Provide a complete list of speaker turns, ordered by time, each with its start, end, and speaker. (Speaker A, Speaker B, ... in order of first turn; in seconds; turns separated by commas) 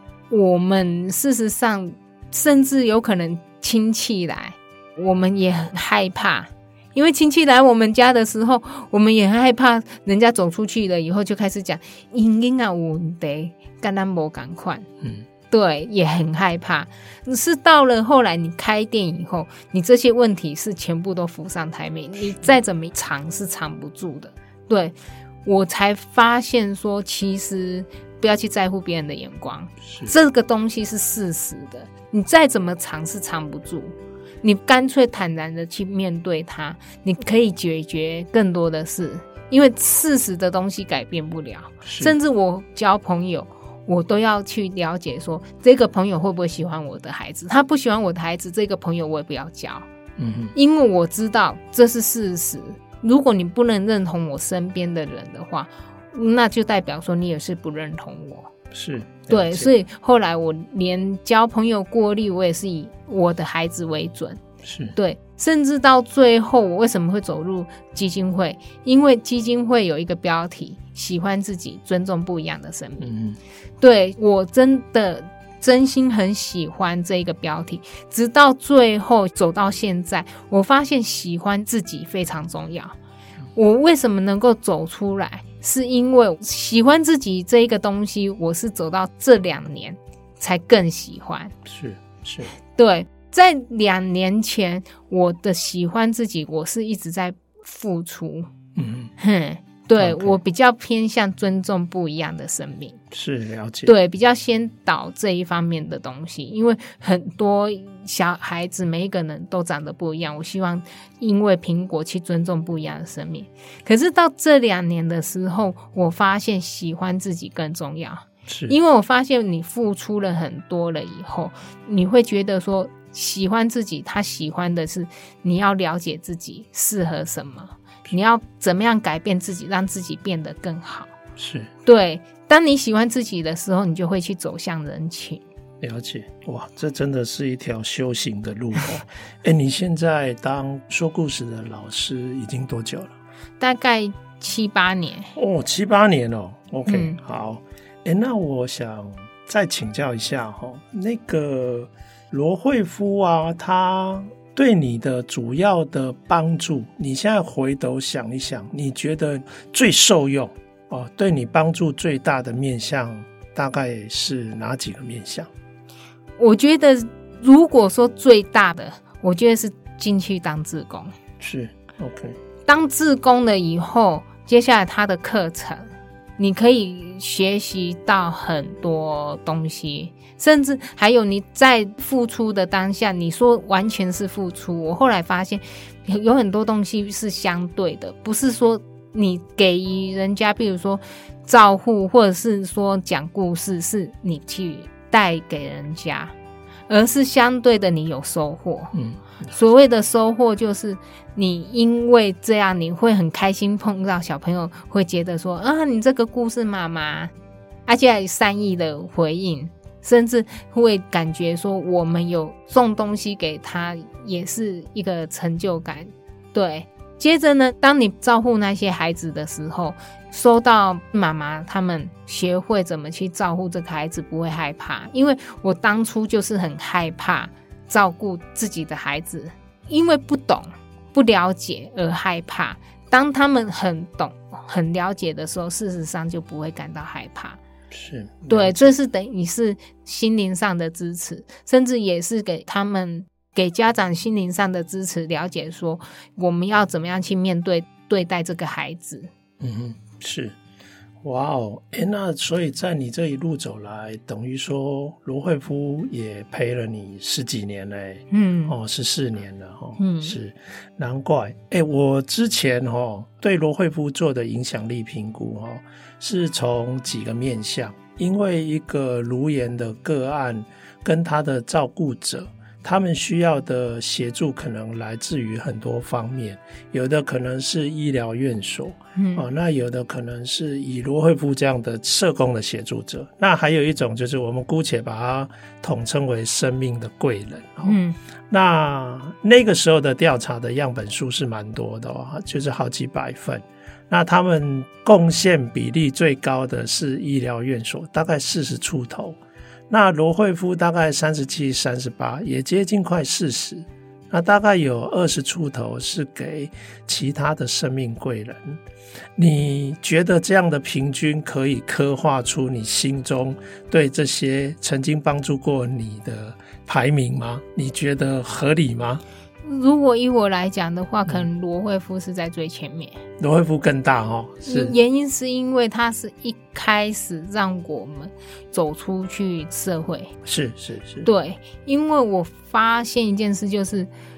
Speaker A: 0.3-14.9, Speaker A: 15.5-49.9, Speaker B: 29.8-30.1, Speaker B: 41.9-42.2, Speaker B: 50.2-50.5, Speaker A: 50.5-58.5, Speaker B: 58.7-59.7, Speaker A: 59.3-64.4, Speaker B: 64.6-65.0, Speaker A: 65.0-73.1, Speaker B: 73.0-73.4, Speaker A: 73.8-83.0, Speaker A: 83.5-91.5, Speaker B: 91.7-92.5, Speaker A: 92.7-98.5, Speaker B: 98.8-99.1, Speaker A: 99.2-103.0, Speaker B: 100.0-100.4, Speaker B: 103.1-103.9, Speaker A: 103.8-131.1, Speaker B: 118.5-118.8, Speaker B: 131.4-131.7, Speaker A: 131.9-135.4, Speaker B: 135.8-143.1, Speaker A: 143.6-145.3, Speaker B: 145.3-165.5, Speaker A: 146.9-147.2, Speaker A: 166.4-171.1, Speaker B: 171.4-172.4, Speaker A: 172.7-196.3, Speaker A: 196.9-198.9, Speaker B: 198.9-199.5, Speaker A: 199.5-207.3, Speaker A: 207.9-237.6, Speaker B: 237.9-238.9, Speaker A: 238.5-249.3, Speaker B: 249.6-250.6, Speaker B: 251.2-288.0, Speaker A: 258.3-258.8, Speaker A: 260.0-260.4, Speaker A: 279.2-279.4, Speaker A: 287.8-288.2, Speaker B: 288.5-299.4, Speaker B: 299.9-308.8, Speaker B: 309.4-319.2, Speaker A: 319.6-323.2, Speaker B: 323.4-324.9, Speaker A: 324.6-330.3, Speaker B: 330.4-331.3, Speaker A: 331.2-334.1